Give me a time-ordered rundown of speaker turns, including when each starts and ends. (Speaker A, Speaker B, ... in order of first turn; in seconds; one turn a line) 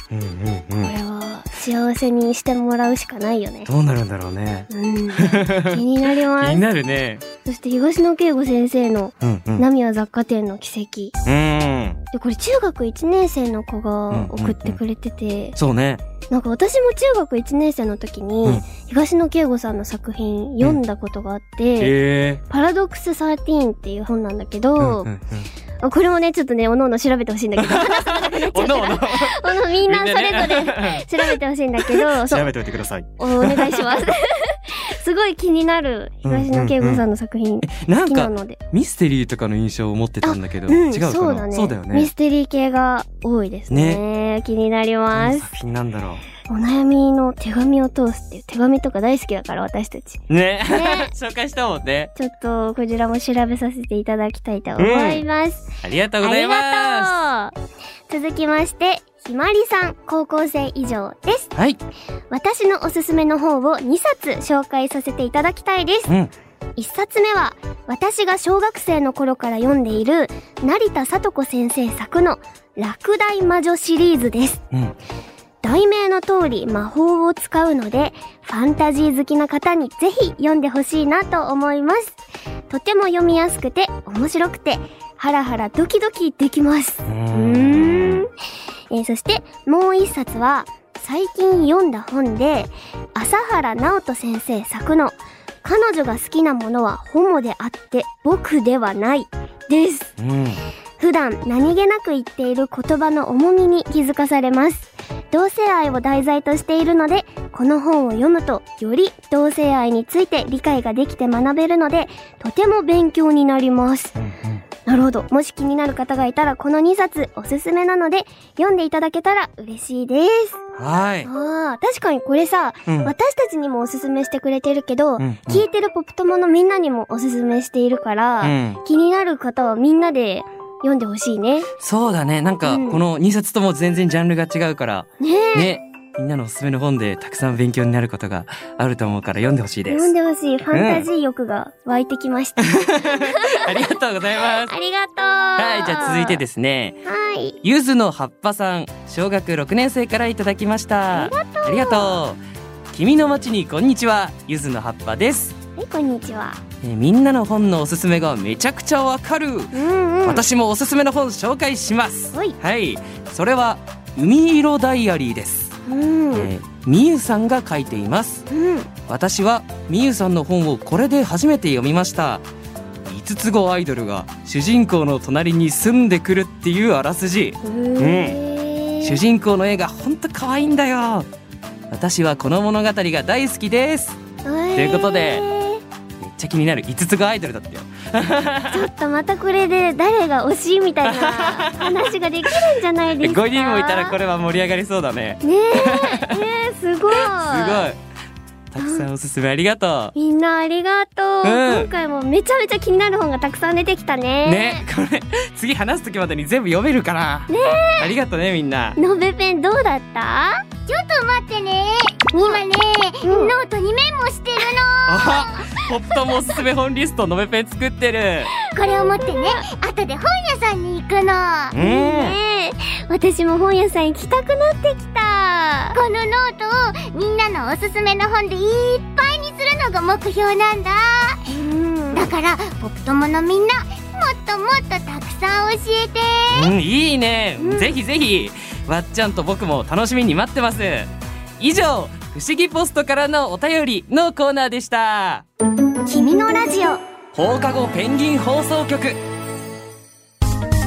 Speaker A: 0.1-0.9
Speaker B: 0.8-3.7
Speaker A: 3.7-5.8
Speaker B: 4.7-6.6
Speaker A: 6.4-7.2
Speaker B: 7.5-11.1
Speaker A: 9.2-9.7
Speaker A: 11.2-12.0
Speaker B: 12.1-15.6
Speaker A: 14.1-14.8
Speaker A: 15.6-16.0
Speaker B: 16.3-21.9
Speaker A: 21.8-22.4
Speaker B: 22.5-25.1
Speaker A: 24.8-25.5
Speaker B: 25.8-32.5
Speaker A: 27.6-34.0
Speaker B: 33.2-38.6
Speaker A: 36.2-37.0
Speaker A: 37.6-42.1
Speaker B: 40.2-45.5
Speaker A: 43.7-44.0
Speaker A: 45.1-46.2
Speaker B: 46.5-51.1
Speaker A: 50.3-52.1
Speaker B: 52.1-57.5
Speaker A: 54.8-55.2
Speaker A: 55.8-57.2
Speaker B: 58.1-61.5
Speaker B: 62.3-66.1
Speaker B: 66.8-74.6
Speaker B: 75.6-82.2
Speaker B: 82.7-88.3
Speaker A: 87.1-88.3
Speaker B: 88.9-100.1
Speaker A: 100.2-100.6
Speaker B: 101.0-114.2
Speaker A: 114.2-114.6
Speaker B: 114.9-120.6
Speaker A: 120.8-121.3
Speaker B: 121.2-131.7
Speaker A: 122.9-123.1
Speaker A: 125.2-125.7
Speaker A: 128.4-128.8
Speaker A: 131.8-140.1
Speaker B: 132.7-133.0
Speaker B: 135.2-135.8
Speaker B: 139.9-143.8
Speaker A: 140.7-141.1
Speaker A: 142.6-144.7
Speaker B: 144.5-146.4
Speaker A: 145.6-147.0
Speaker B: 147.1-147.6
Speaker A: 147.6-152.4
Speaker B: 151.1-152.2
Speaker A: 152.9-155.5
Speaker B: 155.8-156.6
Speaker A: 156.8-165.7
Speaker B: 159.7-160.4
Speaker B: 165.9-166.5
Speaker A: 166.3-168.4
Speaker B: 168.5-168.9
Speaker A: 169.1-172.4
Speaker A: 173.1-178.4
Speaker B: 177.6-179.2
Speaker A: 179.0-181.3
Speaker A: 181.9-184.2
Speaker B: 184.4-185.8
Speaker A: 184.8-185.4
Speaker A: 186.2-188.9
Speaker B: 188.7-194.2
Speaker A: 191.0-192.6
Speaker A: 193.2-196.4
Speaker B: 195.4-197.9
Speaker A: 197.1-198.0
Speaker A: 198.7-200.1
Speaker B: 198.8-199.1
Speaker B: 200.2-204.8
Speaker A: 201.4-201.9
Speaker A: 204.4-209.0
Speaker B: 207.5-208.1
Speaker B: 209.0-210.6
Speaker C: 210.9-215.8
Speaker B: 213.2-213.5
Speaker A: 215.1-218.5
Speaker C: 218.7-221.8
Speaker B: 218.8-219.6
Speaker A: 221.7-222.4
Speaker B: 221.8-226.0
Speaker C: 225.9-231.5
Speaker B: 231.5-232.3
Speaker C: 232.1-236.7
Speaker A: 236.5-245.4
Speaker B: 237.6-237.9
Speaker B: 246.1-247.0
Speaker A: 247.3-249.2